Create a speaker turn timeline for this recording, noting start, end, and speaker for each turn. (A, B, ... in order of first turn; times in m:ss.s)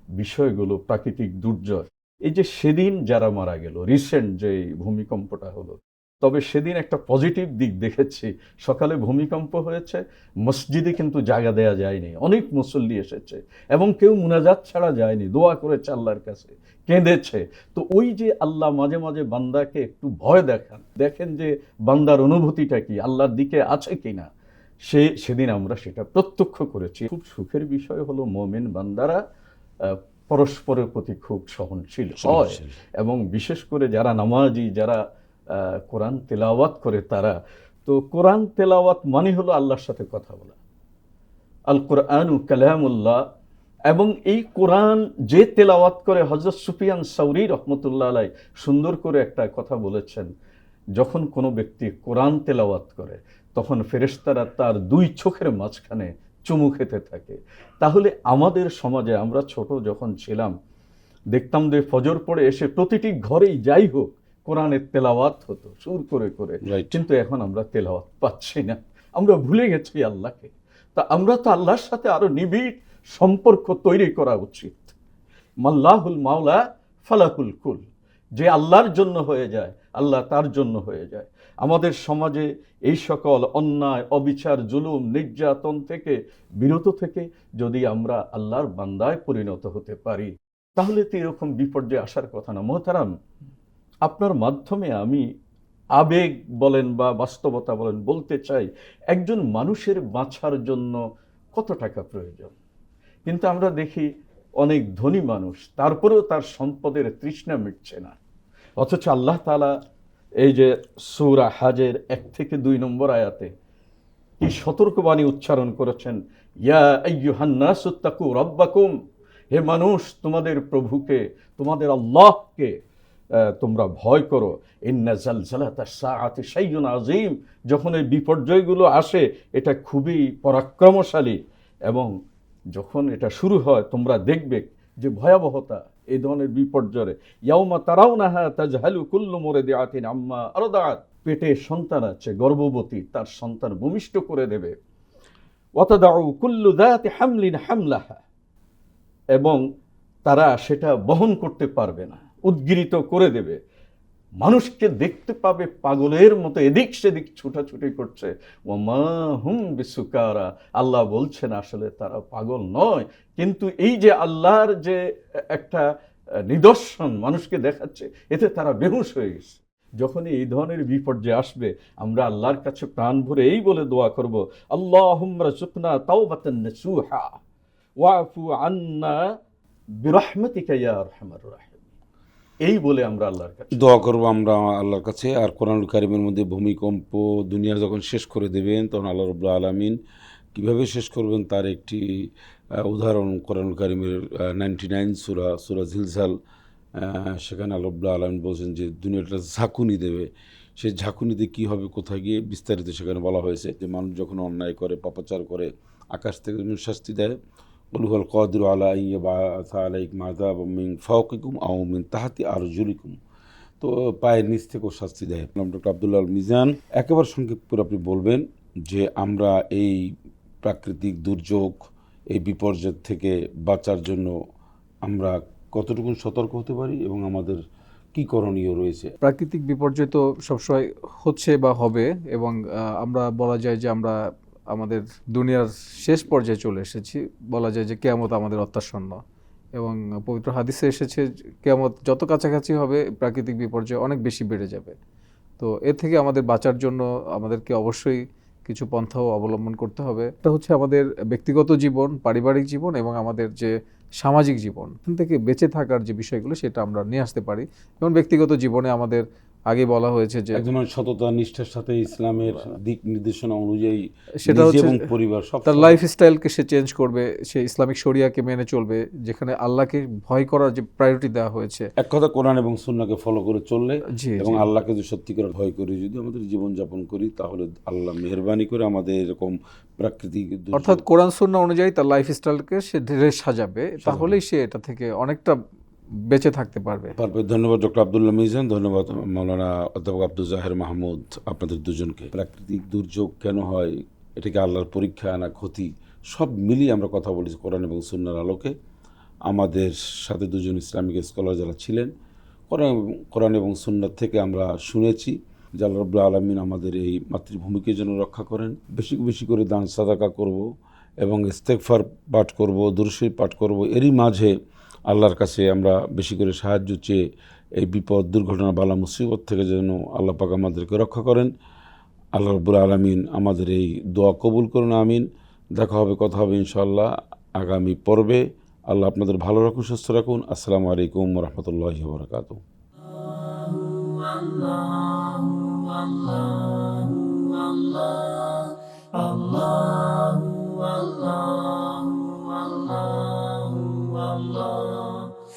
0:00.2-0:24.2 A
0:24.9-0:29.2 A
0:29.8-0:35.0 A
0:32.2-0:32.8 B
0:35.5-0:37.3 A
0:37.8-0:40.5 A
0:41.7-0:43.2 A
0:43.9-0:50.3 A
0:51.0-1:00.5 A
1:01.3-1:14.9 A
1:06.6-1:07.0 B
1:15.6-1:17.8 A
1:18.4-1:33.1 A
1:34.1-1:35.2 A
1:36.0-1:41.0 A
1:41.5-1:42.5 A
1:43.3-1:44.0 A
1:44.6-1:48.1 A
1:48.8-1:49.7 A
1:50.4-1:53.5 A
1:54.4-1:58.9 A
1:59.5-2:02.7 A
2:03.6-2:11.4 A
2:12.7-2:24.7 A
2:25.8-2:28.2 A
2:30.3-2:33.6 A
2:34.4-2:45.0 A
2:45.5-2:45.8 A
2:46.5-2:57.3 A
2:58.0-2:59.2 A
3:00.0-3:01.9 A
3:02.6-3:04.0 A
3:03.8-3:10.0 B
3:10.5-3:12.0 B
3:12.8-3:16.3 B
3:17.0-3:27.3 B
3:27.9-3:33.2 B
3:33.8-3:40.0 B
3:40.6-3:41.7 B
3:42.3-3:44.3 B
3:45.1-3:47.6 B
3:48.1-3:49.1 B
3:49.2-3:54.1 C
3:54.7-3:59.2 C
3:59.8-4:04.9 C
4:05.6-4:20.6 C
4:20.6-4:26.0 B
4:24.4-4:25.1 C
4:25.6-4:31.9 C
4:32.0-4:41.0 B
4:34.1-4:34.6 C
4:40.7-4:45.6 C
4:44.0-4:44.4 B
4:46.3-4:47.1 C
4:47.2-4:58.7 B
4:59.5-5:02.1 B
5:02.7-5:10.6 B
5:11.2-5:14.5 B
5:15.1-5:17.2 B
5:17.8-5:21.5 B
5:22.4-5:32.6 B
5:33.4-5:45.3 C